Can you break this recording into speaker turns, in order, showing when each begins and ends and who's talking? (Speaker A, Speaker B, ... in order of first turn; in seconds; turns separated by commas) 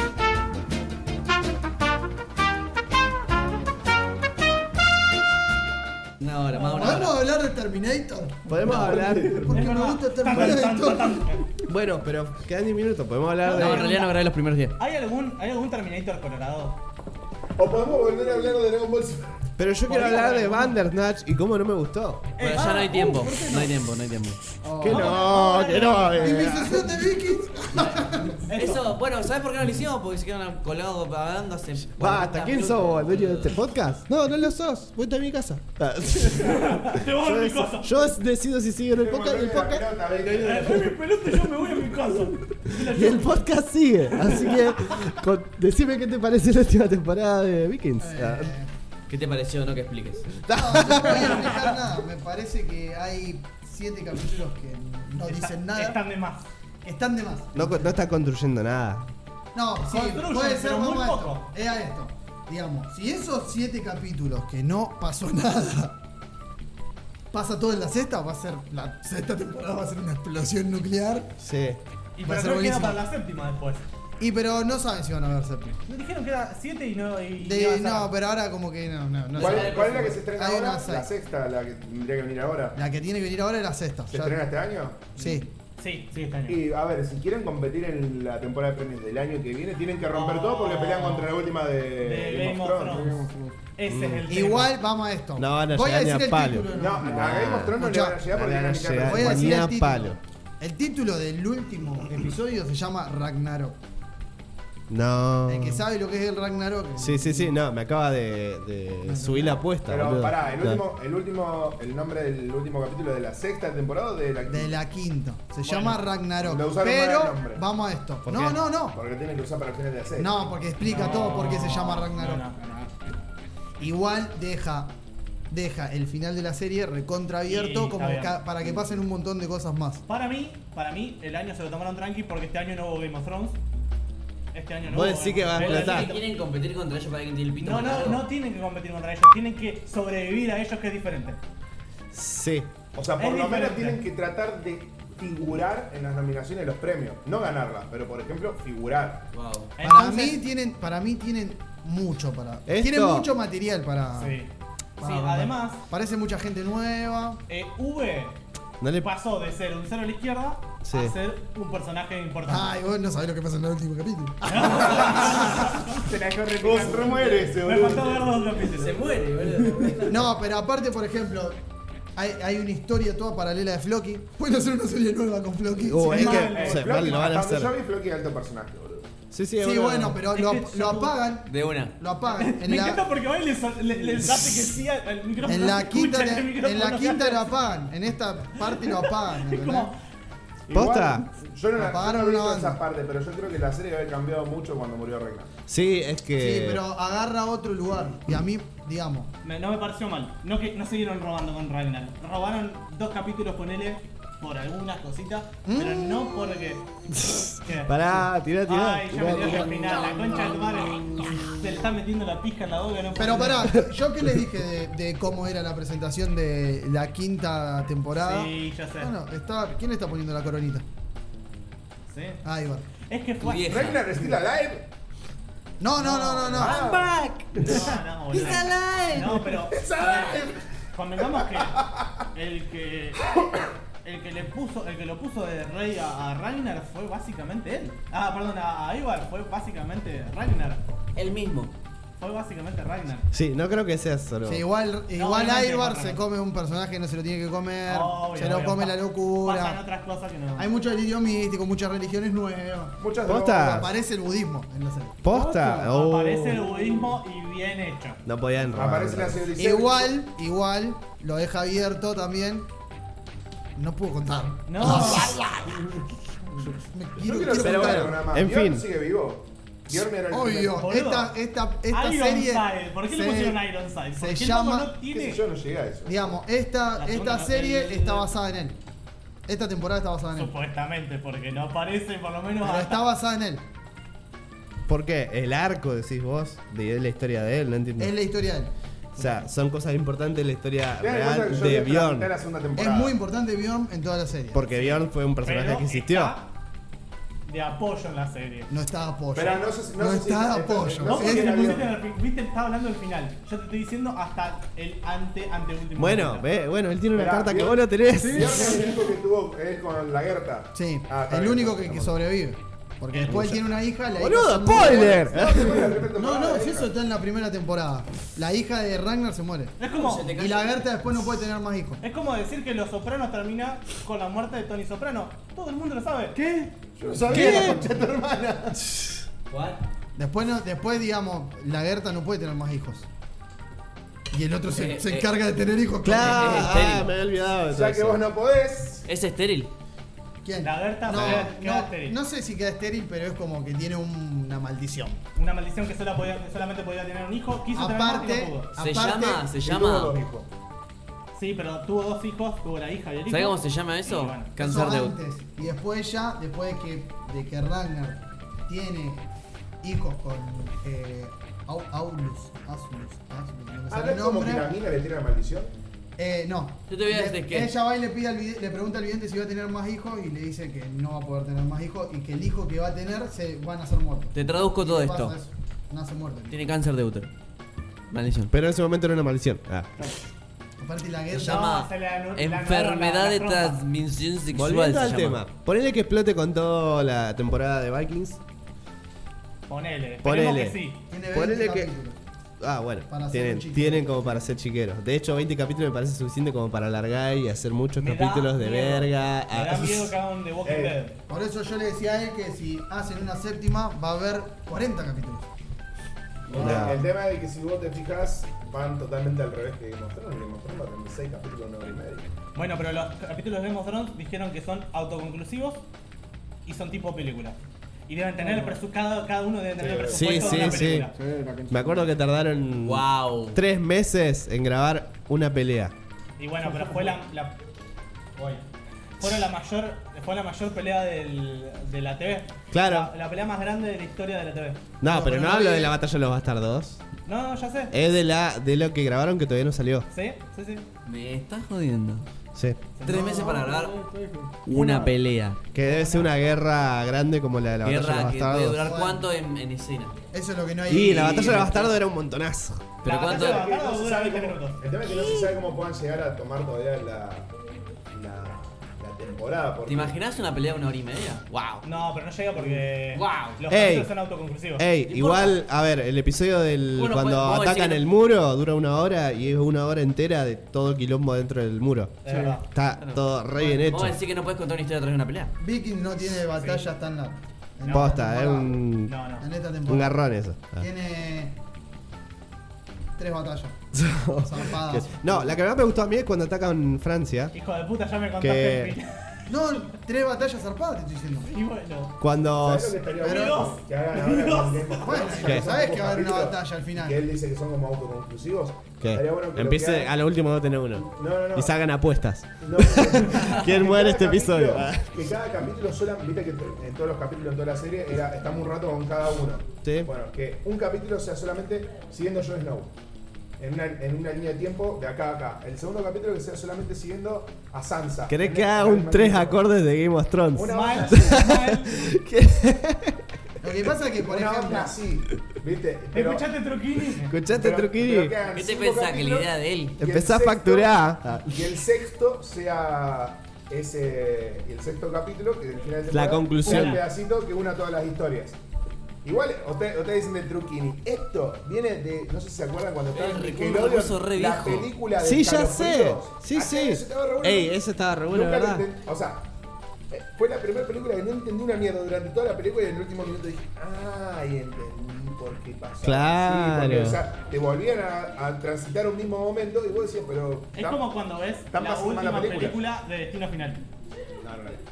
Speaker A: 6.2-7.2, Speaker B: 6.5-7.0, Speaker C: 6.8-11.3, Speaker D: 8.5-9.7, Speaker B: 9.5-11.4, Speaker D: 11.7-14.0, Speaker B: 13.4-14.2, Speaker A: 13.5-14.8, Speaker B: 14.8-16.8, Speaker E: 17.6-19.4, Speaker D: 19.6-22.3, Speaker B: 19.9-20.8, Speaker B: 22.4-23.0, Speaker A: 22.4-24.4, Speaker C: 22.6-23.8, Speaker C: 24.6-28.4, Speaker D: 24.8-27.1, Speaker B: 24.9-26.3, Speaker B: 28.4-28.9, Speaker A: 28.5-33.6, Speaker D: 32.0-40.0, Speaker B: 36.3-38.1, Speaker E: 39.0-40.7, Speaker F: 40.2-42.2, Speaker B: 40.3-43.4, Speaker D: 42.7-48.5, Speaker C: 48.0-48.7, Speaker A: 49.1-50.4, Speaker D: 50.4-51.6, Speaker C: 50.5-56.0, Speaker B: 55.2-56.5, Speaker C: 56.8-57.9, Speaker D: 57.5-59.1, Speaker C: 59.5-66.0, Speaker B: 59.9-61.5, Speaker C: 67.3-71.3, Speaker D: 71.4-71.8, Speaker B: 72.2-73.9, Speaker C: 72.2-73.0, Speaker C: 74.2-75.8, Speaker B: 75.9-78.1, Speaker C: 77.4-81.1, Speaker A: 79.3-80.2, Speaker E: 79.4-82.8, Speaker C: 82.8-84.5, Speaker E: 84.1-85.2, Speaker C: 85.2-85.5, Speaker B: 85.2-86.6, Speaker E: 86.5-93.1, Speaker B: 90.1-91.3, Speaker B: 92.0-94.8, Speaker F: 92.9-93.6, Speaker D: 93.9-94.3, Speaker C: 94.3-98.3, Speaker D: 95.4-100.2, Speaker E: 96.7-99.6, Speaker C: 99.0-103.8, Speaker D: 104.9-105.8, Speaker C: 105.5-107.5, Speaker D: 107.0-110.8, Speaker C: 109.0-109.6, Speaker E: 109.8-114.8, Speaker C: 114.5-119.0, Speaker B: 115.6-116.0, Speaker E: 116.4-117.6, Speaker D: 118.2-118.6, Speaker E: 118.9-120.4, Speaker C: 120.2-122.4, Speaker B: 120.8-122.6, Speaker F: 122.4-123.0, Speaker C: 123.8-124.9, Speaker C: 125.5-130.0, Speaker B: 127.5-128.4, Speaker B: 130.1-133.6, Speaker B: 134.5-136.2, Speaker D: 134.8-136.1, Speaker A: 135.6-138.3, Speaker B: 137.6-141.4, Speaker D: 142.1-142.7, Speaker E: 142.9-149.3, Speaker B: 143.2-144.0, Speaker A: 149.3-149.7, Speaker B: 149.8-150.4, Speaker C: 149.8-154.4, Speaker D: 152.7-153.3, Speaker B: 154.2-155.8, Speaker C: 155.0-157.4, Speaker B: 157.5-158.4, Speaker D: 158.8-159.1, Speaker B: 159.0-162.7, Speaker D: 160.8-161.2, Speaker C: 162.5-165.3, Speaker B: 164.5-165.8, Speaker F: 165.9-167.6, Speaker E: 166.6-168.5, Speaker B: 167.6-169.0, Speaker A: 168.8-170.3, Speaker F: 169.7-169.9, Speaker C: 170.1-171.6, Speaker C: 172.2-176.6, Speaker D: 175.8-177.7, Speaker B: 176.0-177.0, Speaker E: 176.5-179.1, Speaker D: 179.3-180.2, Speaker C: 179.6-183.1, Speaker B: 180.3-181.2, Speaker A: 181.5-181.9, Speaker B: 182.3-187.5, Speaker C: 185.4-189.9, Speaker B: 188.6-189.9, Speaker E: 190.7-195.5, Speaker D: 190.7-191.3, Speaker C: 191.8-192.8, Speaker D: 195.7-196.8, Speaker C: 196.4-199.3, Speaker B: 199.4-213.8, Speaker C: 205.7-206.3, Speaker D: 207.1-210.2, Speaker C: 213.2-220.8, Speaker B: 218.2-219.1, Speaker B: 222.1-222.4, Speaker C: 222.4-222.9, Speaker B: 223.0-224.0, Speaker A: 223.4-224.1, Speaker E: 223.7-224.9, Speaker C: 225.8-226.9, Speaker B: 226.0-226.8, Speaker E: 226.6-227.1, Speaker A: 226.6-229.4, Speaker B: 227.5-233.4, Speaker E: 229.7-230.6, Speaker E: 231.2-232.1, Speaker E: 233.3-233.6, Speaker B: 234.0-240.8, Speaker A: 241.2-241.8, Speaker B: 242.2-243.3, Speaker D: 243.3-244.6, Speaker C: 244.5-249.8, Speaker B: 245.1-246.2, Speaker B: 247.9-250.7, Speaker C: 250.6-253.0, Speaker E: 253.0-253.9, Speaker D: 253.2-253.9, Speaker C: 253.6-255.2, Speaker D: 255.2-256.6, Speaker F: 255.3-255.9, Speaker B: 255.8-258.2, Speaker F: 256.6-257.1, Speaker D: 258.2-259.5, Speaker E: 258.7-260.1, Speaker C: 259.6-262.7, Speaker C: 263.8-265.8, Speaker B: 264.7-265.4, Speaker C: 266.7-268.2, Speaker E: 267.2-270.8, Speaker D: 267.6-268.9, Speaker C: 270.3-273.6, Speaker B: 270.7-271.3, Speaker B: 271.9-275.4, Speaker C: 274.2-275.0, Speaker E: 275.1-276.4, Speaker C: 276.1-278.8, Speaker B: 277.0-278.3, Speaker C: 279.5-280.6, Speaker B: 280.3-283.1, Speaker C: 282.6-283.6, Speaker D: 284.9-288.1, Speaker C: 288.0-288.7, Speaker D: 289.1-292.3, Speaker E: 291.0-293.2, Speaker C: 292.8-294.7, Speaker D: 294.5-296.4, Speaker B: 294.7-296.5, Speaker B: 297.5-298.7, Speaker C: 298.7-301.9, Speaker E: 299.4-301.9, Speaker B: 301.1-306.5, Speaker D: 306.0-308.7, Speaker E: 307.1-312.2, Speaker F: 308.2-309.1, Speaker C: 310.8-319.8, Speaker B: 313.1-313.4, Speaker D: 313.3-313.6, Speaker D: 314.2-315.9, Speaker E: 314.7-316.9, Speaker B: 319.8-320.3, Speaker A: 319.9-320.8, Speaker C: 320.3-322.0, Speaker B: 322.0-326.4, Speaker F: 326.3-326.7, Speaker E: 327.0-328.8, Speaker D: 327.3-327.9, Speaker C: 327.4-327.8, Speaker A: 329.5-329.8, Speaker C: 330.2-333.1, Speaker C: 334.3-336.8, Speaker A: 334.7-335.3, Speaker D: 336.0-338.2, Speaker A: 336.1-337.1, Speaker E: 337.7-339.1, Speaker A: 339.1-339.7, Speaker C: 340.4-345.2, Speaker B: 340.6-342.2, Speaker B: 345.4-348.7, Speaker C: 347.7-349.5, Speaker A: 348.8-350.2, Speaker E: 349.5-350.5, Speaker B: 351.3-354.6, Speaker A: 353.3-355.2, Speaker C: 354.6-359.2, Speaker C: 359.8-364.7, Speaker E: 363.9-365.7, Speaker C: 366.2-376.6, Speaker A: 366.9-367.7, Speaker A: 374.3-375.4, Speaker A: 376.5-377.3, Speaker A: 378.1-378.5, Speaker D: 378.5-380.1, Speaker C: 380.8-381.7, Speaker A: 381.3-385.4, Speaker B: 381.4-383.8, Speaker D: 384.5-388.4, Speaker B: 389.7-391.0, Speaker D: 390.2-390.8, Speaker C: 391.1-392.2, Speaker D: 391.3-391.9, Speaker D: 392.6-400.1, Speaker C: 393.1-394.5, Speaker B: 398.0-401.2, Speaker E: 400.6-401.0, Speaker C: 401.3-405.5, Speaker E: 406.5-412.3, Speaker D: 406.5-407.0, Speaker C: 406.6-407.0, Speaker B: 412.6-415.8, Speaker B: 416.7-417.6, Speaker B: 418.1-421.1, Speaker F: 418.4-418.8, Speaker E: 419.8-420.5, Speaker D: 420.0-421.1, Speaker F: 420.4-422.1, Speaker D: 421.7-425.9, Speaker A: 422.8-423.6, Speaker B: 426.4-427.6, Speaker F: 426.7-427.1, Speaker B: 428.4-428.6, Speaker B: 429.2-435.9, Speaker D: 432.7-433.1, Speaker D: 435.0-437.0, Speaker B: 437.3-437.9, Speaker D: 437.9-440.1, Speaker B: 440.1-440.9, Speaker A: 441.1-442.3, Speaker D: 442.6-442.8, Speaker B: 443.0-443.4, Speaker A: 443.0-443.9, Speaker F: 443.1-444.7, Speaker A: 444.7-445.6, Speaker D: 445.7-448.9, Speaker B: 445.8-446.3, Speaker A: 447.8-450.2, Speaker C: 448.8-449.3, Speaker C: 450.3-451.9, Speaker D: 450.9-452.9, Speaker A: 451.2-451.9, Speaker A: 453.0-453.7, Speaker B: 453.0-454.9, Speaker E: 453.2-457.5, Speaker A: 455.1-455.5, Speaker E: 458.1-460.2, Speaker A: 459.9-461.9, Speaker B: 461.8-464.9, Speaker F: 462.6-462.8, Speaker A: 463.1-463.6, Speaker D: 463.7-464.1, Speaker D: 464.8-474.2, Speaker A: 465.1-465.6, Speaker A: 466.9-468.1, Speaker B: 472.2-472.6, Speaker F: 472.3-472.6, Speaker A: 473.9-475.5, Speaker C: 475.6-478.9, Speaker B: 476.5-476.9, Speaker B: 477.8-478.3, Speaker D: 477.9-479.1, Speaker B: 479.1-479.5, Speaker C: 479.4-480.2, Speaker D: 479.9-480.9, Speaker C: 480.8-481.6, Speaker C: 483.2-483.8, Speaker D: 483.9-487.5, Speaker C: 484.4-485.4, Speaker B: 487.5-489.5, Speaker D: 488.4-488.9, Speaker C: 489.5-491.5, Speaker B: 491.5-492.2, Speaker D: 492.2-493.0, Speaker E: 492.6-500.1, Speaker B: 493.1-495.3, Speaker C: 493.2-493.8, Speaker C: 495.0-497.3, Speaker D: 499.0-505.1, Speaker E: 501.1-501.8, Speaker E: 502.6-512.9, Speaker D: 509.8-510.1, Speaker E: 513.6-519.6, Speaker D: 518.3-523.2, Speaker E: 520.5-521.4, Speaker B: 520.7-521.9, Speaker C: 523.6-525.0, Speaker E: 524.2-526.5, Speaker B: 526.1-527.4, Speaker D: 527.2-528.4, Speaker E: 527.5-538.6, Speaker A: 528.5-530.0, Speaker D: 530.0-531.6, Speaker D: 536.1-537.0, Speaker B: 536.6-537.0, Speaker E: 539.2-549.5, Speaker A: 543.1-544.9, Speaker D: 545.2-548.9, Speaker E: 550.1-561.1, Speaker D: 556.0-557.2, Speaker B: 560.7-563.9, Speaker E: 561.7-562.8, Speaker E: 564.4-564.8